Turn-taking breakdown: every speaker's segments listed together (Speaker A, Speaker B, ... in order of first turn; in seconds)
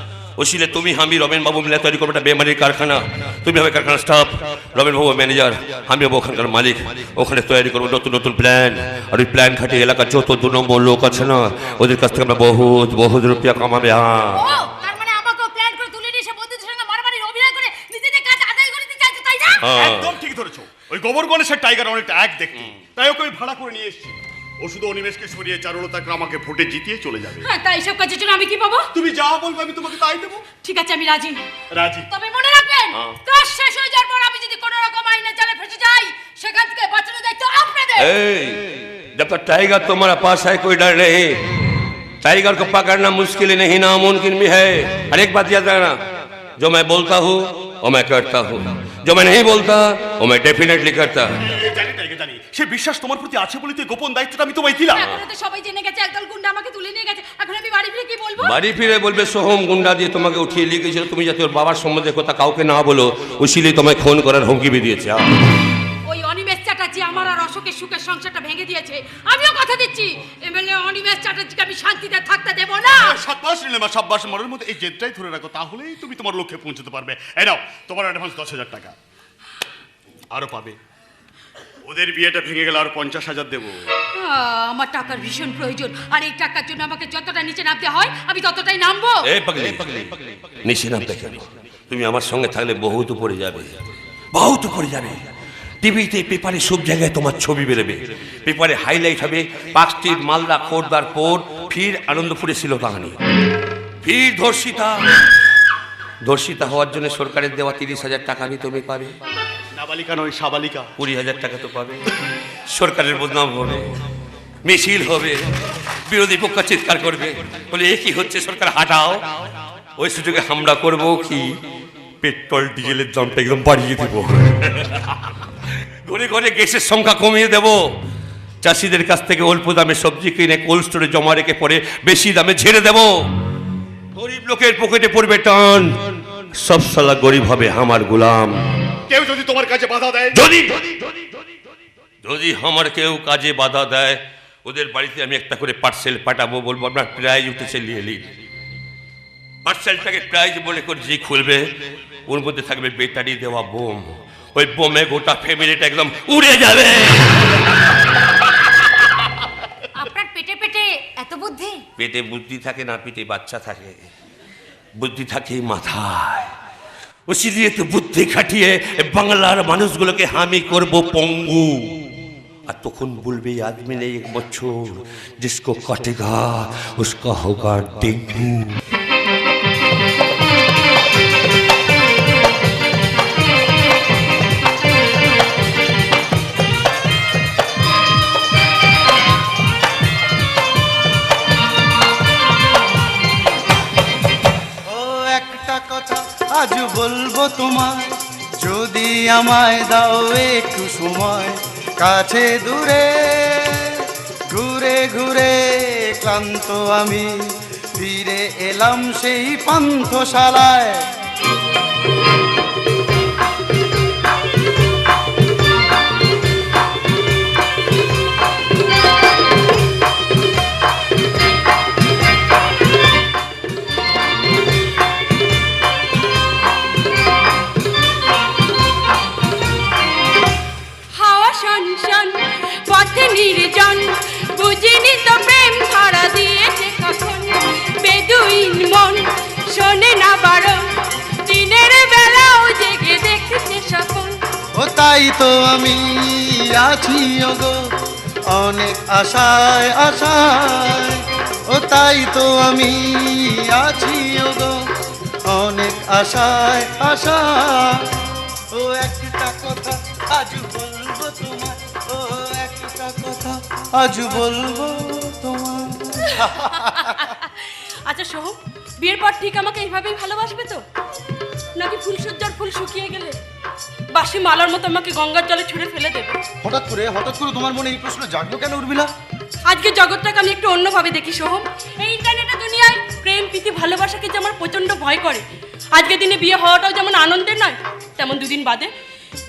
Speaker A: 0.4-14.5, 19.6-20.1, 32.9-33.2, 38.0-41.4, 42.2-46.0, 46.6-51.4, 55.0-55.2, 58.4-65.2, 89.2-93.7, 94.3-95.2, 95.8-103.2, 104.0-105.0, 106.2-109.1, 111.0-112.0, 112.7-113.9, 114.6-115.4, 116.1-119.3, 120.0-121.5, 122.2-125.2, 126.0-127.8, 128.6-133.1, 134.1-138.6, 140.3-141.4, 142.2-148.3, 149.6-151.8, 152.3-157.6, 162.0-164.0, 165.0-166.5, 167.3-178.8
Speaker B: 14.3-19.6, 27.4-28.9, 30.6-31.4, 32.1-38.1, 54.9-58.5, 66.0-73.2, 84.1-89.3, 159.9-161.8
Speaker C: 19.7-27.5, 28.9-30.4, 31.7-32.1, 51.5-55.0, 72.9-79.0, 80.3-80.8, 81.8-83.8, 109.7-110.9, 139.1-140.4
Speaker D: 194.9-211.1, 244.8-247.8, 248.5-254.8, 255.4-267.3, 276.6-279.1
Speaker E: 231.1-244.4, 266.3-270.8, 271.7-273.4, 274.1-276.3, 279.6-288.9